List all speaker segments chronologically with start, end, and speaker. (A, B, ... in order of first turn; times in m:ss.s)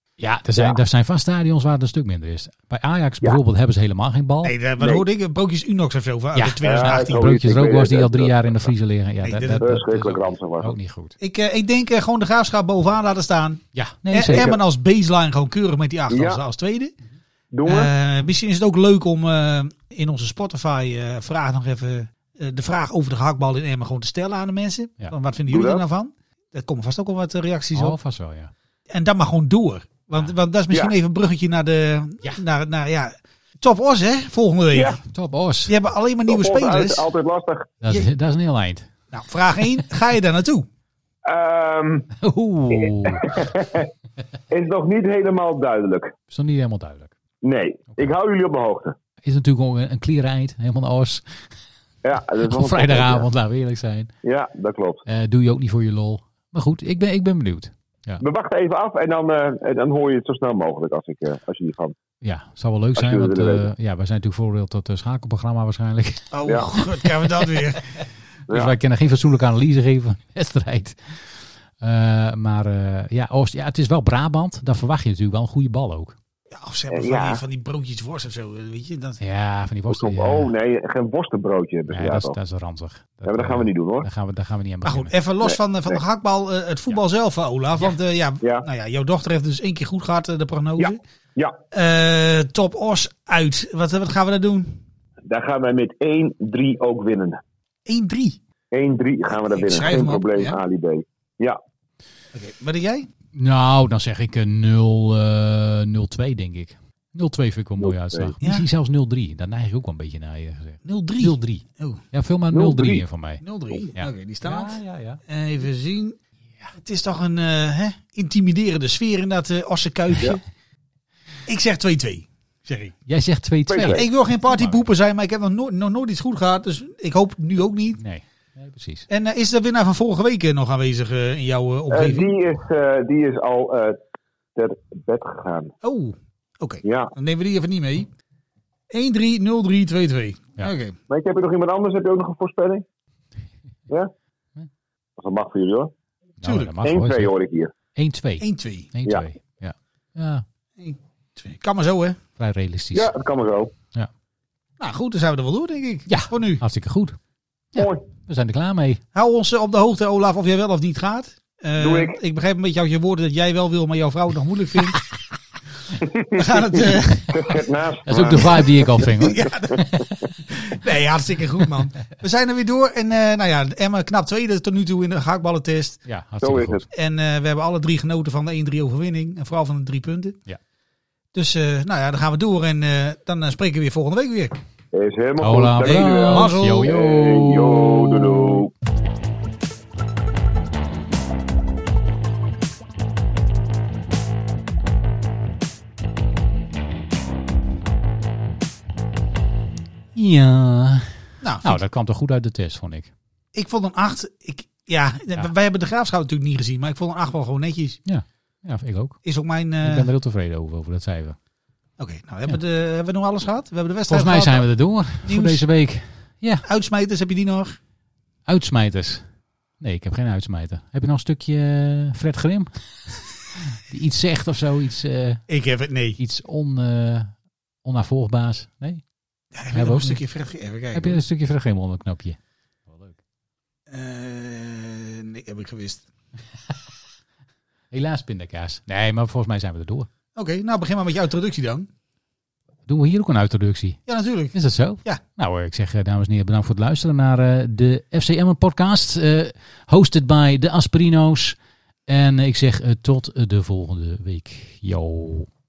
0:00.2-0:04.6 A
0:04.4-0:07.3 B
0:04.8-0:05.0 C
0:06.4-0:11.2 A
0:06.6-0:08.4 C
0:09.2-0:09.7 B
0:09.5-0:10.7 C
0:11.2-0:16.9 B
0:13.8-0:14.5 A
0:14.3-0:14.6 C
0:16.1-0:16.4 C
0:17.5-0:17.9 C
0:17.6-0:28.0 B
0:25.5-0:25.8 C
0:27.7-0:28.5 A
0:28.9-0:35.0 B
0:34.7-0:35.0 C
0:35.1-0:35.7 A
0:35.7-0:37.1 B
0:36.3-0:37.8 C
0:37.8-0:38.9 A
0:39.1-0:40.7 B
0:41.3-0:42.1 C
0:42.2-0:43.5 A
0:42.8-0:43.9 C
0:44.5-0:46.1 C
0:46.3-0:47.1 A
0:47.4-0:49.0 C
0:49.2-0:51.2 A
0:52.0-0:53.3 C
0:52.4-0:54.1 A
0:54.2-0:55.0 C
0:55.1-0:58.2 A
0:58.2-1:01.9 C
1:02.2-1:07.5 A
1:03.0-1:03.7 C
1:06.3-1:07.9 B
1:08.5-1:16.2 A
1:16.5-1:19.2 B
1:16.9-1:17.4 C
1:19.2-1:20.5 A
1:19.9-1:22.4 C
1:21.9-1:25.1 A
1:23.3-1:24.1 C
1:24.8-1:31.0 B
1:25.4-1:25.9 C
1:30.8-1:31.6 C
1:31.7-1:34.8 B
1:35.3-1:37.4 C
1:37.9-1:38.4 B
1:38.7-1:41.6 C
1:39.4-1:40.6 B
1:42.3-1:43.1 B
1:43.3-1:55.2 A
1:47.8-1:48.3 C
1:50.8-1:52.0 B
1:52.5-1:53.0 C
1:53.4-1:56.2 B
1:56.8-2:00.4 B
2:01.5-2:02.9 B
2:03.1-2:04.8 A
2:03.7-2:04.0 C
2:03.8-2:08.0 B
2:08.0-2:09.1 A
2:09.1-2:12.3 B
2:11.9-2:14.0 C
2:14.6-2:15.7 C
2:15.8-2:18.1 B
2:16.8-2:17.1 C
2:18.9-2:21.0 B
2:21.1-2:22.8 C
2:25.2-2:25.9 C
2:26.4-2:27.3 A
2:26.4-2:26.8 B
2:26.8-2:27.7 C
2:28.0-2:30.4 A
2:28.4-2:28.9 B
2:30.8-2:32.2 B
2:32.4-2:33.1 A
2:32.9-2:33.7 C
2:34.8-2:36.6 B
2:36.1-2:37.2 A
2:37.8-2:39.0 A
2:37.8-2:38.0 C
2:39.1-2:45.0 B
2:41.8-2:42.2 C
2:46.0-2:50.1 C
2:46.3-2:47.3 B
2:48.1-2:50.1 A
2:48.4-2:56.0 B
2:56.0-2:56.8 A
2:56.4-2:56.9 C
2:56.9-3:00.4 B
3:01.3-3:04.6 B
3:04.9-3:08.7 C
3:05.4-3:08.6 A
3:05.8-3:06.9 B
3:20.2-3:23.1 A
3:21.4-3:21.8 B
3:23.5-3:28.0 B
3:28.1-3:29.2 A
3:29.2-3:30.1 B
3:29.8-3:31.4 A
3:32.0-3:34.7 B
3:34.1-3:36.7 A
3:35.2-3:35.6 B
3:36.6-3:37.8 B
3:38.5-3:39.3 A
3:39.8-3:42.7 A
3:43.6-3:45.4 A
3:45.5-3:46.2 B
3:46.2-3:49.0 A
3:49.5-3:51.2 B
3:49.7-3:50.2 A
3:50.9-3:53.2 A
3:53.9-3:56.0 B
3:57.9-4:00.1 A
4:00.4-4:01.9 B
4:02.9-4:04.0 A
4:04.1-4:05.2 B
4:04.5-4:11.6 A
4:12.1-4:15.5 A